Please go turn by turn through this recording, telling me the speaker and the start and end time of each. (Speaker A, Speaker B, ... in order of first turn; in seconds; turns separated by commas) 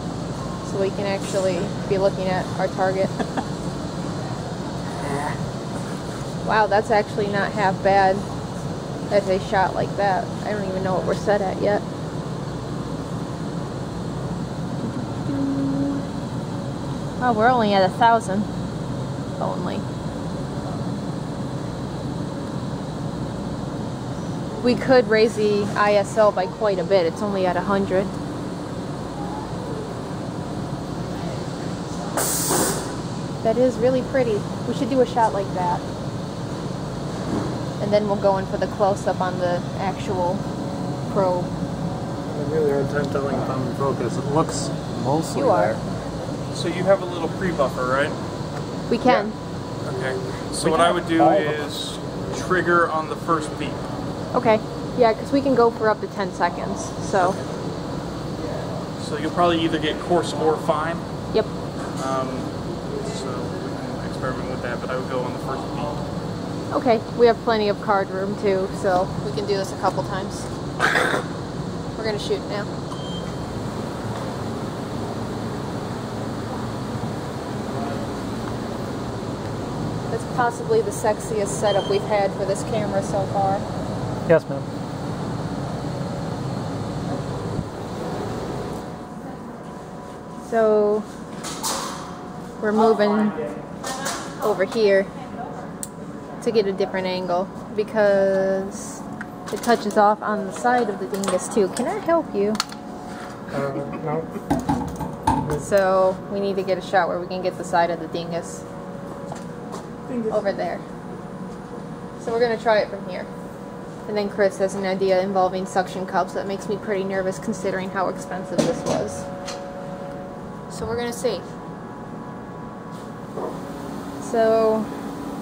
Speaker A: 0.6-3.1, Speaker A: 6.4-8.2, Speaker A: 9.1-11.8, Speaker A: 14.8-16.0, Speaker A: 17.2-18.5, Speaker A: 19.4-19.8, Speaker A: 24.6-28.1, Speaker A: 33.4-35.8, Speaker A: 37.8-40.4, Speaker A: 41.1-41.5, Speaker B: 42.2-45.8, Speaker A: 45.3-45.8, Speaker C: 46.5-48.2, Speaker A: 48.9-49.4, Speaker C: 49.8-53.8, Speaker B: 50.5-51.6, Speaker A: 54.3-57.4, Speaker C: 59.0-61.0, Speaker C: 61.9-66.0, Speaker A: 66.7-70.5, Speaker A: 72.0-72.7, Speaker A: 80.1-83.6, Speaker B: 84.3-84.7, Speaker A: 90.4-91.1, Speaker A: 92.6-93.4, Speaker A: 94.3-95.2, Speaker A: 96.4-102.6, Speaker B: 103.5-104.3, Speaker A: 105.5-108.6, Speaker A: 110.3-110.8, Speaker A: 112.2-113.3, Speaker A: 114.0-119.2, Speaker A: 120.7-121.5, Speaker A: 124.2-124.9